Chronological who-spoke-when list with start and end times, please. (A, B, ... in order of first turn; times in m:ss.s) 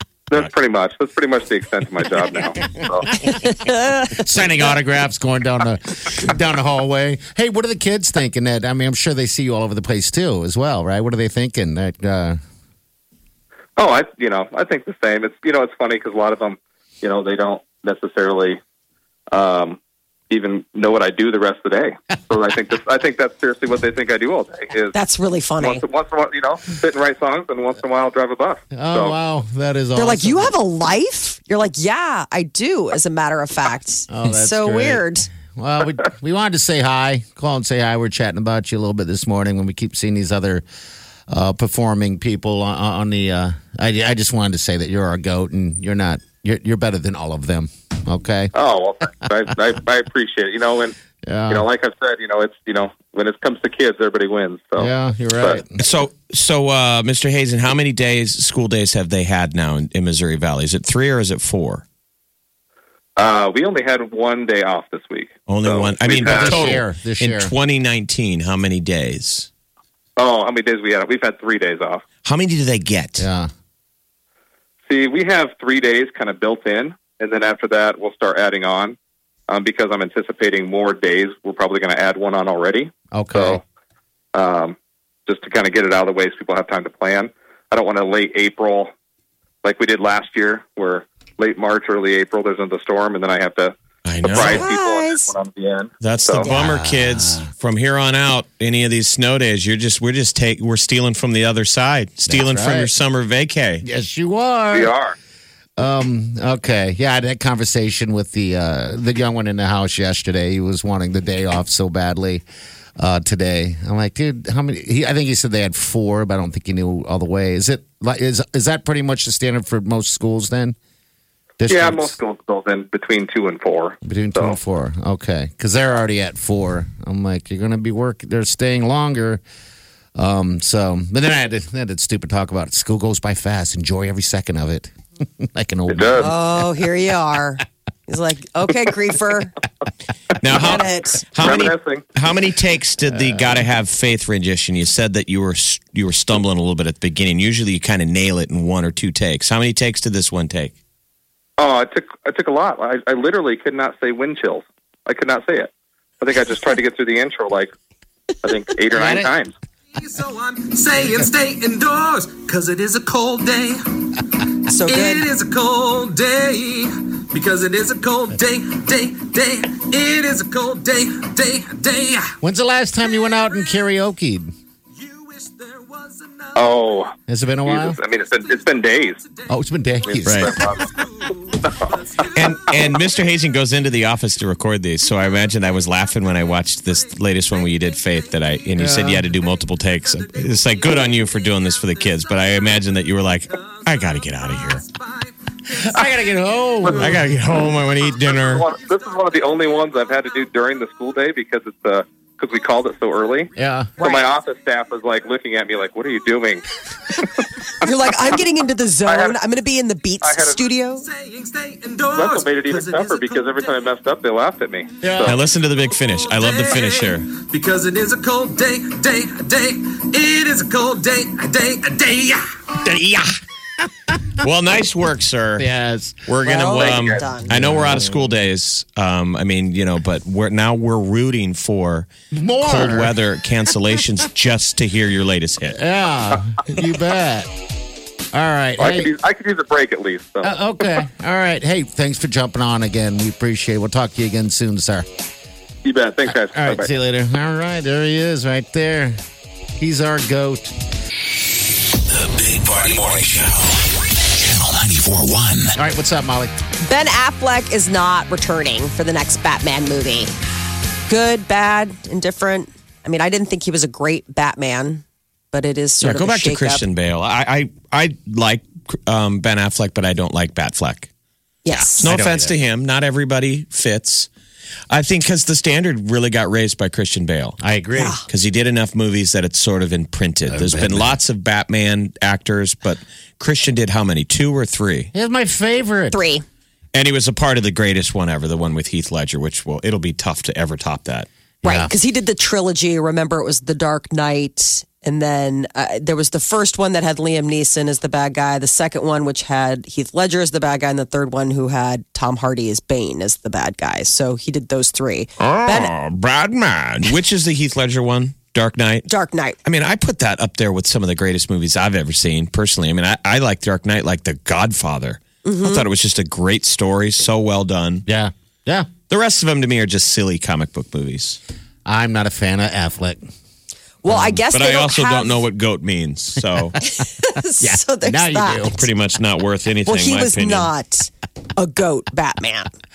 0:00.3-0:03.2 A
0:03.3-0:04.2 B
0:04.1-0:12.4 C
0:13.8-0:18.6 A
0:19.3-0:19.8 A
0:20.3-0:25.0 A
0:24.9-0:25.8 B
0:25.6-0:29.2 A
0:28.7-0:30.6 C
0:30.0-0:35.3 B
0:34.1-0:40.6 C
0:41.3-0:48.5 C
0:48.5-0:51.0 A
0:51.2-0:51.7 C
0:51.5-0:55.6 A
0:54.8-0:55.8 C
0:55.8-1:01.8 D
1:03.2-1:06.8 A
1:05.5-1:09.5 D
1:06.2-1:07.5 C
1:10.2-1:12.0 A
1:12.2-1:13.3 D
1:13.2-1:13.5 C
1:14.9-1:19.0 A
1:19.5-1:23.6 A
1:23.1-1:23.6 C
1:24.3-1:24.8 A
1:25.3-1:28.9 A
1:29.6-1:36.5 A
1:34.0-1:34.7 D
1:34.4-1:35.3 B
1:36.0-1:43.8 D
1:36.4-1:37.5 C
1:42.3-1:42.9 C
1:43.8-1:44.9 C
1:44.7-1:45.2 A
1:45.8-1:52.4 C
1:53.0-2:00.8 C
2:01.6-2:02.1 C
2:01.7-2:04.6 A
2:04.0-2:09.4 C
2:10.2-2:16.3 C
2:15.9-2:16.3 A
2:16.2-2:19.5 B
2:20.4-2:30.7 D
2:20.5-2:21.3 B
2:21.4-2:22.1 A
2:23.1-2:23.6 C
2:31.6-2:37.7 A
2:38.4-2:39.5 A
2:38.9-2:39.3 C
2:40.0-2:52.4 E
2:41.0-2:41.3 C
2:44.7-2:45.3 B
2:52.4-2:54.5 C
2:53.2-2:53.8 E
2:55.0-2:57.0 E
2:56.6-2:57.1 A
2:57.3-2:58.0 C
2:57.7-2:59.2 A
2:58.1-3:03.5 E
2:59.5-3:00.7 C
3:00.1-3:01.0 A
3:00.3-3:00.6 D
3:02.3-3:14.8 D
3:05.0-3:20.5 E
3:08.8-3:09.3 C
3:15.8-3:17.2 C
3:17.0-3:18.6 D
3:18.4-3:27.4 A
3:23.6-3:23.9 C
3:24.0-3:24.3 B
3:27.8-3:31.0 B
3:29.1-3:29.4 A
3:30.2-3:30.6 A
3:31.0-3:34.0 E
3:32.2-3:35.4 A
3:35.0-3:35.3 C
3:35.2-3:37.3 D
3:35.5-3:42.4 E
3:42.8-3:43.4 C
3:44.4-3:45.7 D
3:45.6-3:46.2 C
3:46.3-3:52.1 D
3:46.4-3:47.5 B
3:47.4-3:48.3 C
3:52.3-3:53.2 C
3:52.6-3:55.8 D
3:55.7-3:57.5 C
3:58.3-3:59.1 C
3:58.8-4:00.5 A
4:00.4-4:05.1 C
4:05.8-4:06.9 A
4:06.3-4:09.2 C
4:09.8-4:10.7 C
4:12.1-4:15.7 F
4:15.8-4:16.5 C
4:16.8-4:20.3 B
4:21.1-4:26.8 B
4:26.0-4:31.1 D
4:31.6-4:32.0 B
4:31.7-4:32.6 C
4:32.0-4:34.3 D
4:34.9-4:37.6 D
4:37.6-4:38.2 C
4:38.0-4:38.2 B
4:38.3-4:45.1 D
4:40.5-4:41.2 C
4:45.1-4:46.2 C
4:46.1-4:46.4 B
4:46.9-4:51.3 D
4:51.6-4:51.9 C
4:51.6-5:05.9 B
5:05.4-5:09.1 D
5:09.1-5:09.6 B
5:09.6-5:18.1 D
5:15.4-5:15.9 B
5:18.1-5:18.9 C
5:19.1-5:21.4 D
5:21.9-5:23.3 C
5:24.0-5:25.4 B
5:24.1-5:24.4 C
5:24.5-5:26.8 D
5:26.9-5:28.8 B
5:27.6-5:28.8 C
5:28.8-5:30.7 D
5:29.9-5:32.7 B